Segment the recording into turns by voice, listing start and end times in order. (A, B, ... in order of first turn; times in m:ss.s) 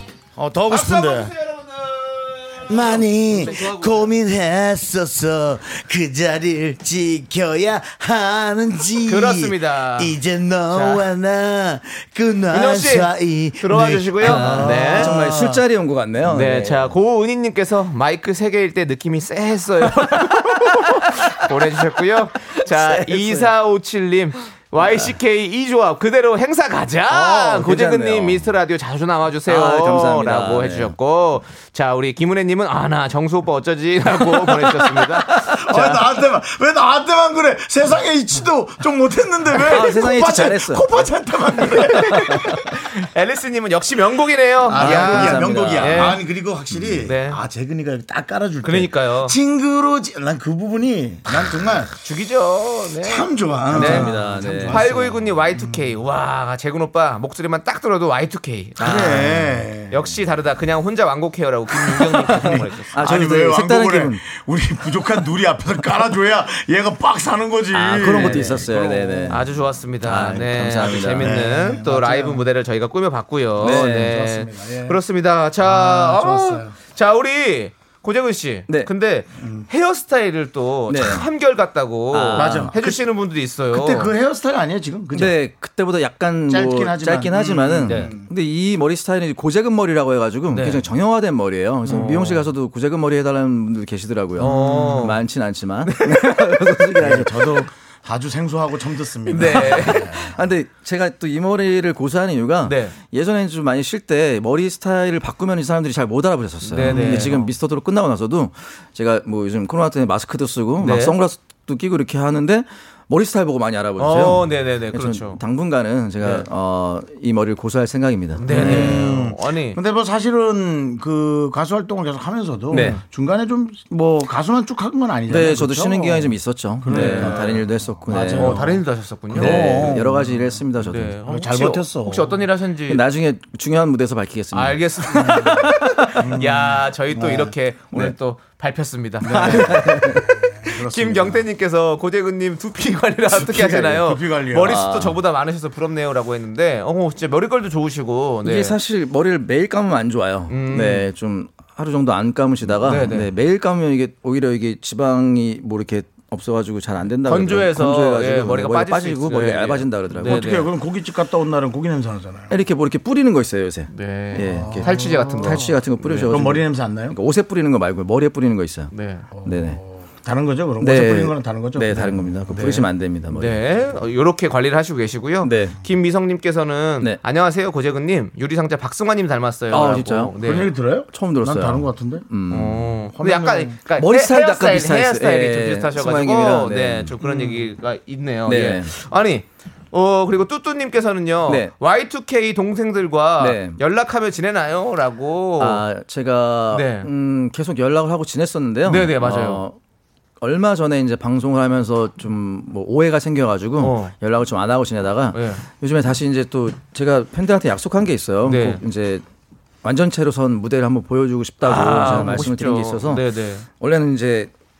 0:00.4-0:01.3 A
0:00.7-0:04.0 B
0:02.7-0:15.6 A
0:09.0-0:10.2 B
0:10.7-0:11.1 B
0:12.5-0:15.1 B
0:14.2-0:16.9 C
0:16.3-0:36.0 B
0:22.7-0:23.5 C
0:24.8-0:25.1 C
0:27.1-0:28.5 C
0:29.4-0:30.9 C
0:34.6-0:35.0 C
0:35.3-0:42.6 A
0:39.6-0:40.9 C
0:41.6-0:46.2 B
0:44.6-0:51.9 A
0:44.7-0:46.1 C
0:47.0-0:47.4 B
0:48.6-0:49.3 B
0:52.0-0:54.1 B
0:53.0-0:55.8 A
0:53.7-0:55.0 C
0:54.7-0:59.3 B
0:58.8-1:00.0 A
0:58.8-0:59.5 C
0:59.9-1:03.0 B
1:02.2-1:04.2 C
1:02.3-1:09.5 A
1:07.7-1:09.5 C
1:09.3-1:24.1 B
1:10.0-1:11.4 C
1:11.2-1:12.4 A
1:13.6-1:14.2 C
1:13.6-1:15.0 A
1:15.6-1:16.8 A
1:19.4-1:19.7 A
1:20.9-1:21.2 C
1:22.1-1:22.7 C
1:22.4-1:23.1 A
1:23.7-1:25.4 A
1:25.1-1:37.6 C
1:26.5-1:28.3 A
1:27.9-1:28.1 B
1:30.5-1:30.8 B
1:31.8-1:32.5 B
1:34.4-1:35.2 B
1:34.4-1:35.0 A
1:35.8-1:36.2 B
1:37.0-1:40.4 A
1:39.3-1:40.1 B
1:39.4-1:59.1 C
1:42.6-1:42.9 B
1:46.6-1:47.5 B
1:46.8-1:47.3 A
1:50.8-1:51.1 B
1:54.0-1:55.4 B
1:56.2-1:56.4 B
1:58.4-1:59.8 B
1:58.5-2:10.4 A
2:02.7-2:03.0 C
2:02.7-2:03.0 B
2:05.3-2:08.7 C
2:06.9-2:07.5 B
2:08.2-2:10.0 B
2:09.3-2:11.2 C
2:10.8-2:13.0 B
2:11.2-2:12.3 A
2:12.9-2:15.9 C
2:14.5-2:28.8 B
2:15.2-2:15.6 A
2:16.1-2:17.5 A
2:19.2-2:21.5 A
2:19.3-2:20.2 C
2:23.3-2:24.9 A
2:24.6-2:25.2 C
2:28.4-2:40.6 C
2:30.5-2:31.1 B
2:32.8-2:33.3 B
2:37.2-2:40.7 B
2:40.1-2:42.5 A
2:42.5-2:48.9 C
2:43.9-2:46.3 B
2:44.5-2:45.7 A
2:46.3-2:47.2 A
2:48.9-2:49.3 B
2:49.4-2:52.2 A
2:49.4-2:49.8 C
2:50.8-2:53.6 C
2:52.5-3:00.7 B
2:55.4-2:55.8 C
2:59.7-3:00.4 C
3:00.4-3:02.3 A
3:01.1-3:03.1 C
3:02.5-3:15.8 B
3:03.1-3:03.8 A
3:03.9-3:07.2 C
3:07.2-3:07.6 A
3:08.5-3:08.9 C
3:11.5-3:11.7 C
3:13.4-3:13.8 C
3:15.6-3:19.8 C
3:16.7-3:17.1 B
3:18.8-3:19.6 B
3:20.4-3:29.2 C
3:23.8-3:24.1 B
3:25.3-3:25.6 B
3:28.4-3:28.8 B
3:29.8-3:33.2 C
3:31.6-3:33.7 B
3:33.8-3:34.5 C